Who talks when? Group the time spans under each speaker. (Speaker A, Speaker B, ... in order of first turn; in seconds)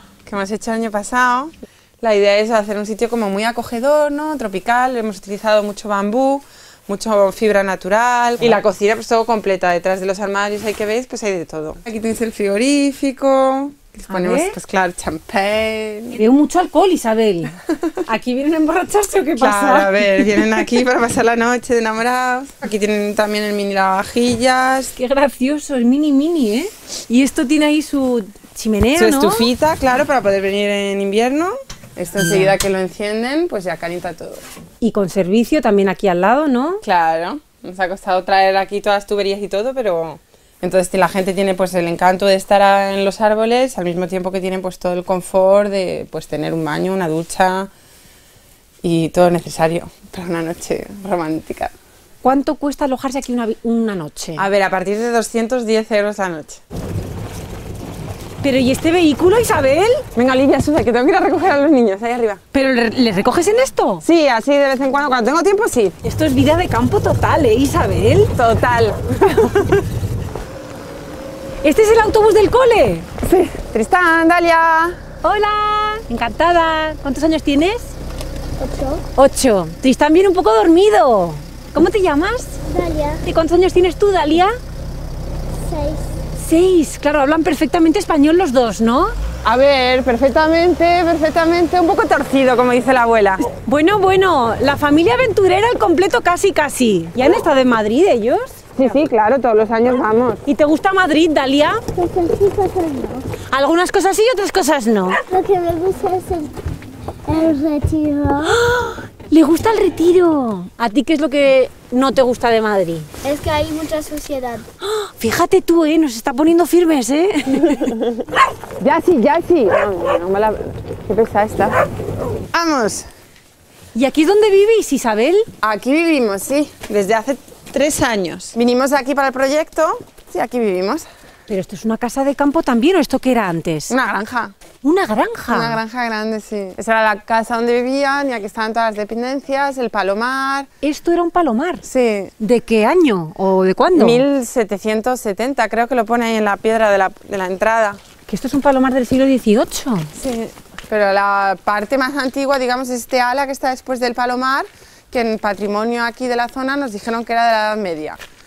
Speaker A: 0.3-16.1, 19.4-24.9, 29.0-34.4, 36.9-47.7, 48.8-51.7, 54.4-56.6, 60.1-62.4, 64.0-66.0, 68.4-69.7, 73.2-75.0, 89.5-93.4, 98.8-100.4, 118.8-121.8, 122.5-123.1, 125.6-131.1, 133.9-134.5, 135.5-140.7, 141.8-142.3, 143.9-148.0, 150.2-158.2
Speaker B: 14.1-14.6, 16.1-17.5, 18.1-20.6, 24.9-29.5, 32.2-32.5, 34.8-36.8, 52.2-54.5, 58.4-60.0, 62.5-64.0, 66.0-68.3, 71.6-73.1, 75.2-77.9, 79.2-82.6, 83.2-84.6, 86.4-89.1, 93.4-98.7, 100.5-101.8, 103.5-105.2, 108.5-113.1, 114.8-118.0, 124.0-125.5, 131.5-133.9, 134.8-135.8, 140.8-141.8, 142.4-144.2, 148.3-150.1
Speaker C: 78.6-79.0, 82.7-83.2, 85.7-86.1, 101.9-103.3, 105.1-106.5, 107.3-108.6, 113.2-114.7